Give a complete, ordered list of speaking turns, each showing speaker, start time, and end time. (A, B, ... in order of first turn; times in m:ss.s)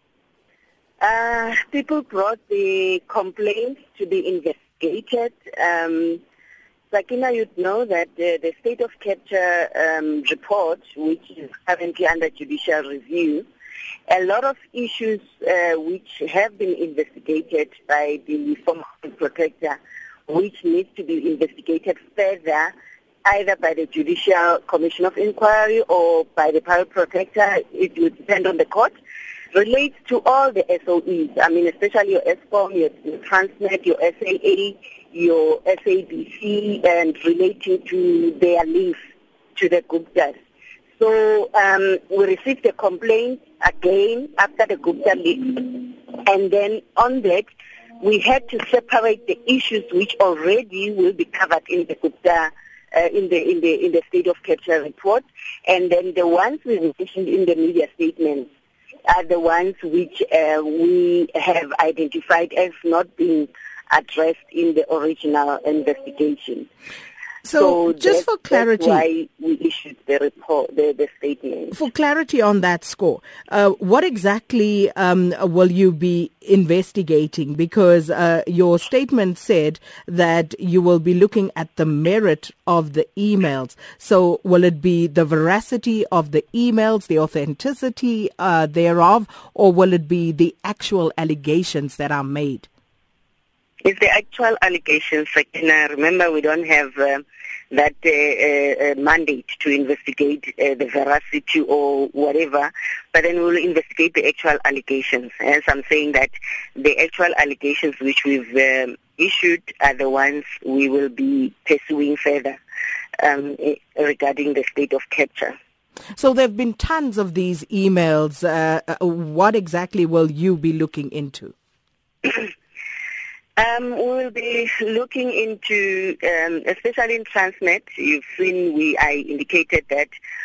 0:01.0-0:06.2 A
0:06.9-0:13.5 A
0:14.1-0:19.8 A
0:20.3-0:22.7 A
0:23.2-0:28.9 A
0:29.5-0:39.0 A
0:39.6-0:40.4 A
0:41.0-0:58.5 A
0:59.0-1:06.7 A
1:07.4-1:09.0 B
1:07.6-1:11.7 A
1:11.7-1:32.7 B
1:33.8-1:52.6 A
1:53.2-1:55.6 A
1:56.2-2:01.5 B
2:02.2-2:02.5 A
2:03.6-2:10.1 A